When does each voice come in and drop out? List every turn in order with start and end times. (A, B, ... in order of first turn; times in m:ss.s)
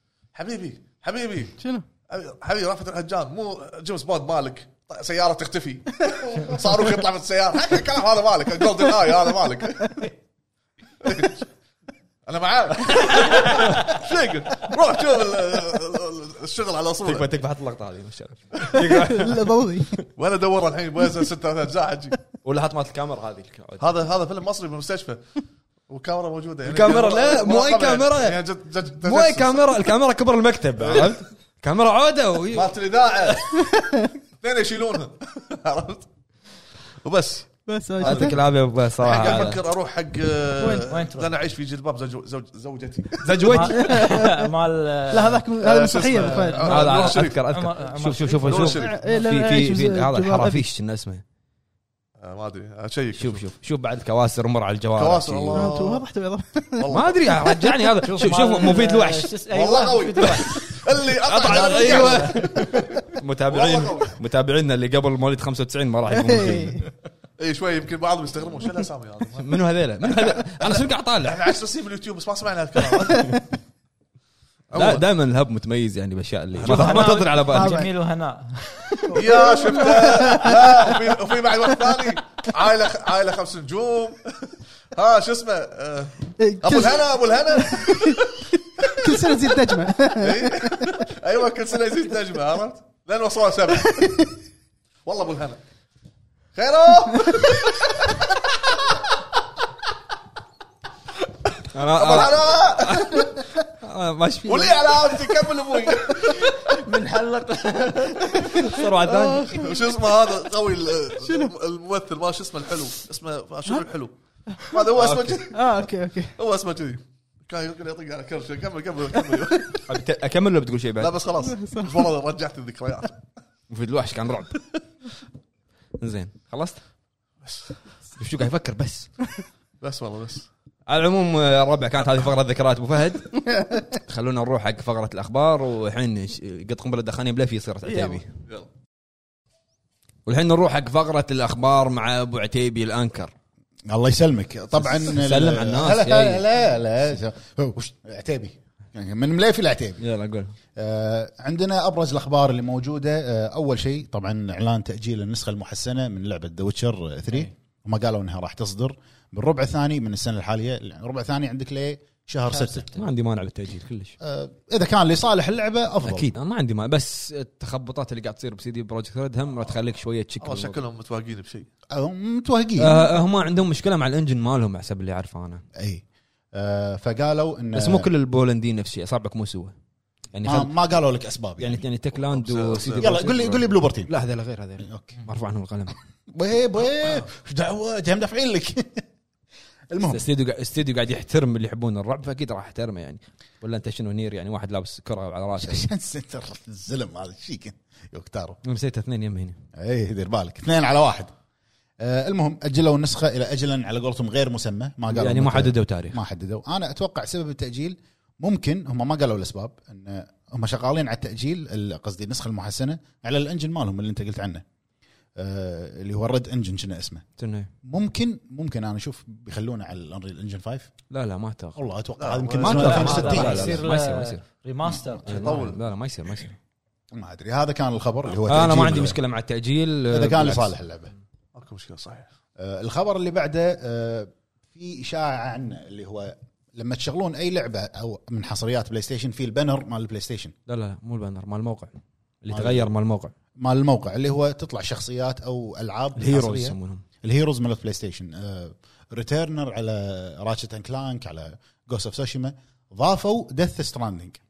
0:00.3-0:10.1 A
0:01.6-0:01.8 B
0:11.0-0:11.5 A
0:12.2-0:17.3 A
0:17.0-0:20.1 C
0:18.8-0:20.0 B
0:20.2-0:22.2 A
0:22.4-0:24.0 C
0:23.8-0:25.2 A
0:25.9-0:29.7 A
0:26.6-0:28.4 C
0:29.0-0:32.7 C
0:30.8-0:31.2 A
0:32.5-0:33.7 A
0:33.6-0:34.1 B
0:34.4-0:36.1 A
0:37.0-0:38.4 A
0:37.6-0:38.4 B
0:38.0-0:39.6 C
0:39.0-0:43.6 A
0:40.6-0:40.8 B
0:40.7-0:41.3 D
0:43.2-0:44.0 C
0:43.4-0:45.4 D
0:43.8-0:44.4 B
0:45.1-0:46.8 B
0:45.6-0:47.4 A
0:45.9-0:48.8 D
0:46.6-0:51.2 C
0:48.5-0:49.0 A
0:48.8-0:50.6 B
0:52.2-0:53.4 A
0:53.1-0:55.7 C
0:55.0-0:56.1 A
0:55.5-0:56.9 B
0:56.8-0:57.6 A
0:56.9-0:59.3 C
0:58.0-1:00.8 D
0:59.5-1:04.1 A
1:01.2-1:06.8 C
1:01.4-1:02.9 D
1:06.2-1:06.9 B
1:07.4-1:09.5 A
1:09.4-1:11.4 C
1:10.0-1:13.4 A
1:14.7-1:15.0 A
1:14.7-1:17.8 C
1:16.6-1:19.2 D
1:16.6-1:17.9 B
1:19.0-1:20.7 B
1:19.1-1:29.4 A
1:26.4-1:28.2 B
1:28.8-1:30.9 B
1:30.2-1:34.3 A
1:35.0-1:35.6 A
1:36.5-1:39.0 A
1:41.2-1:43.4 A
1:41.7-1:45.1 C
1:44.4-1:46.8 A
1:46.6-1:48.8 D
1:48.6-1:49.6 C
1:49.3-1:55.8 A
1:51.2-1:51.5 B
1:55.0-1:55.4 C
1:55.5-1:56.3 B
1:56.4-1:59.8 A
1:59.9-2:01.2 C
2:01.0-2:03.2 A
2:01.4-2:02.1 B
2:03.7-2:04.6 C
2:06.0-2:06.8 C
2:07.4-2:07.8 A
2:08.2-2:09.1 C
2:09.8-2:10.5 A
2:10.9-2:13.3 C
2:13.4-2:13.9 B
2:13.9-2:18.3 C
2:17.9-2:18.2 B
2:20.2-2:23.3 C
2:23.9-2:30.0 E
2:24.8-2:26.4 C
2:30.0-2:30.5 C
2:30.8-2:43.0 E
2:42.5-2:42.8 D
2:42.9-2:44.1 C
2:44.2-2:46.3 E
2:46.0-2:50.8 C
2:50.4-2:51.7 A
2:51.9-2:53.1 E
2:52.8-2:55.6 C
2:55.8-2:58.1 E
2:57.7-2:59.7 C
3:00.3-3:00.7 C
3:00.4-3:01.8 E
3:01.6-3:06.0 C
3:02.3-3:03.2 A
3:03.0-3:04.1 E
3:04.8-3:05.2 E
3:06.3-3:09.0 E
3:09.9-3:10.2 E
3:10.1-3:15.8 C
3:15.6-3:18.6 E
3:18.6-3:19.6 C
3:19.7-3:21.3 E
3:22.0-3:34.6 E
3:25.1-3:26.2 C
3:35.4-3:37.2 E
3:37.4-3:37.7 C
3:37.8-3:40.9 E
3:41.1-3:41.8 C
3:41.7-3:43.9 E
3:42.2-3:43.6 A
3:42.6-3:44.4 C
3:42.7-3:45.4 D
3:44.8-3:45.4 E
3:45.2-3:46.6 C
3:45.3-3:45.8 A
3:47.1-3:49.2 E
3:48.5-3:50.7 C
3:50.1-3:51.1 E
3:51.5-3:52.3 A
3:52.6-4:00.5 E
4:00.7-4:03.3 C
4:02.5-4:02.9 E
4:03.6-4:14.4 E
4:06.2-4:07.0 C